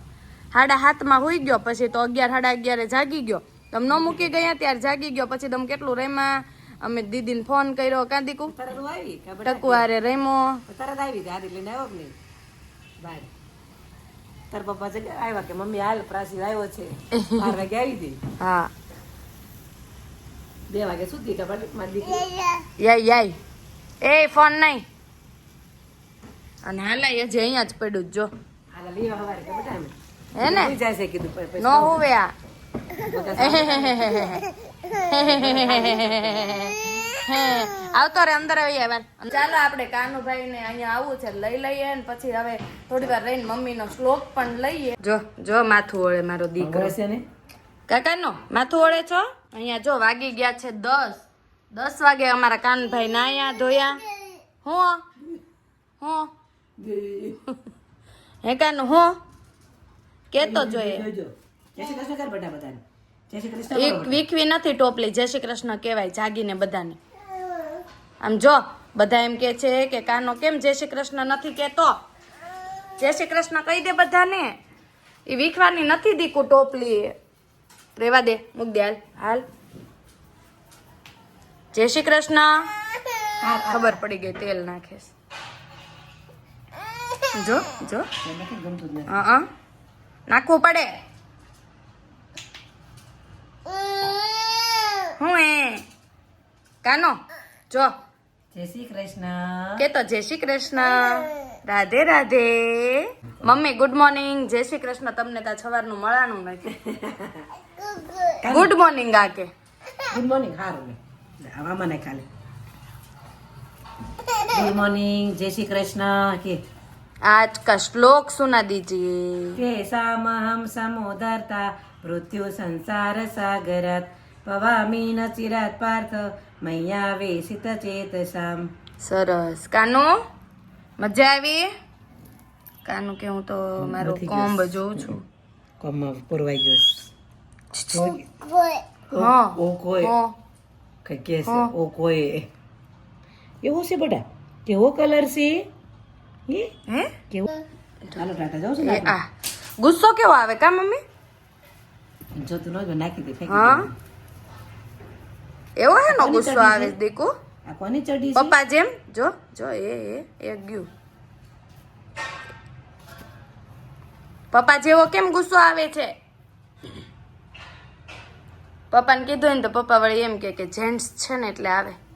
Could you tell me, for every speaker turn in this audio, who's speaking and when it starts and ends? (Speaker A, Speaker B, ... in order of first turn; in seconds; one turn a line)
Speaker A: 0.5-8.5
Speaker B: 3.9-4.4
Speaker B: 8.5-9.9
Speaker A: 9.4-10.6
Speaker B: 10.7-12.2
Speaker B: 13.0-13.3
Speaker B: 14.5-18.2
Speaker A: 17.1-17.5
Speaker A: 18.4-18.7
Speaker B: 20.7-22.3
Speaker A: 22.8-23.4
Speaker A: 24.0-24.9
Speaker A: 26.6-28.3
Speaker B: 28.7-32.0
Speaker A: 30.4-30.8
Speaker A: 31.6-32.3
Speaker B: 33.0-34.4
Speaker A: 33.4-46.9
Speaker B: 35.1-36.7
Speaker B: 46.6-47.2
Speaker A: 47.9-54.0
Speaker A: 54.6-55.0
Speaker A: 56.0-56.3
Speaker B: 56.8-57.4
Speaker A: 58.4-59.1
Speaker A: 60.3-61.1
Speaker B: 60.4-64.2
Speaker A: 63.7-67.0
Speaker A: 68.2-72.0
Speaker A: 73.0-74.5
Speaker A: 75.3-77.2
Speaker A: 78.0-79.4
Speaker A: 81.7-82.7
Speaker B: 83.4-84.0
Speaker A: 83.6-85.1
Speaker A: 87.3-88.1
Speaker B: 88.2-89.2
Speaker A: 89.1-89.4
Speaker A: 90.3-90.9
Speaker A: 95.1-95.8
Speaker A: 96.8-97.1
Speaker B: 98.5-99.9
Speaker A: 99.8-106.7
Speaker B: 106.7-107.5
Speaker B: 108.3-108.7
Speaker A: 108.4-109.5
Speaker B: 110.0-112.2
Speaker B: 114.5-116.6
Speaker A: 117.2-119.6
Speaker B: 119.6-128.7
Speaker A: 129.0-130.1
Speaker A: 131.0-131.7
Speaker A: 132.8-135.2
Speaker B: 133.8-135.2
Speaker B: 135.8-137.1
Speaker A: 137.7-138.2
Speaker B: 137.9-138.3
Speaker B: 139.1-140.2
Speaker A: 139.1-140.3
Speaker B: 141.0-142.5
Speaker A: 141.4-141.7
Speaker B: 143.6-145.7
Speaker A: 146.9-147.1
Speaker B: 148.1-149.2
Speaker A: 148.8-149.3
Speaker A: 149.8-151.0
Speaker B: 152.4-153.9
Speaker A: 153.5-153.9
Speaker A: 155.8-157.3
Speaker B: 156.1-156.9
Speaker B: 157.7-158.6
Speaker A: 158.3-160.9
Speaker A: 164.5-166.1
Speaker A: 168.9-172.0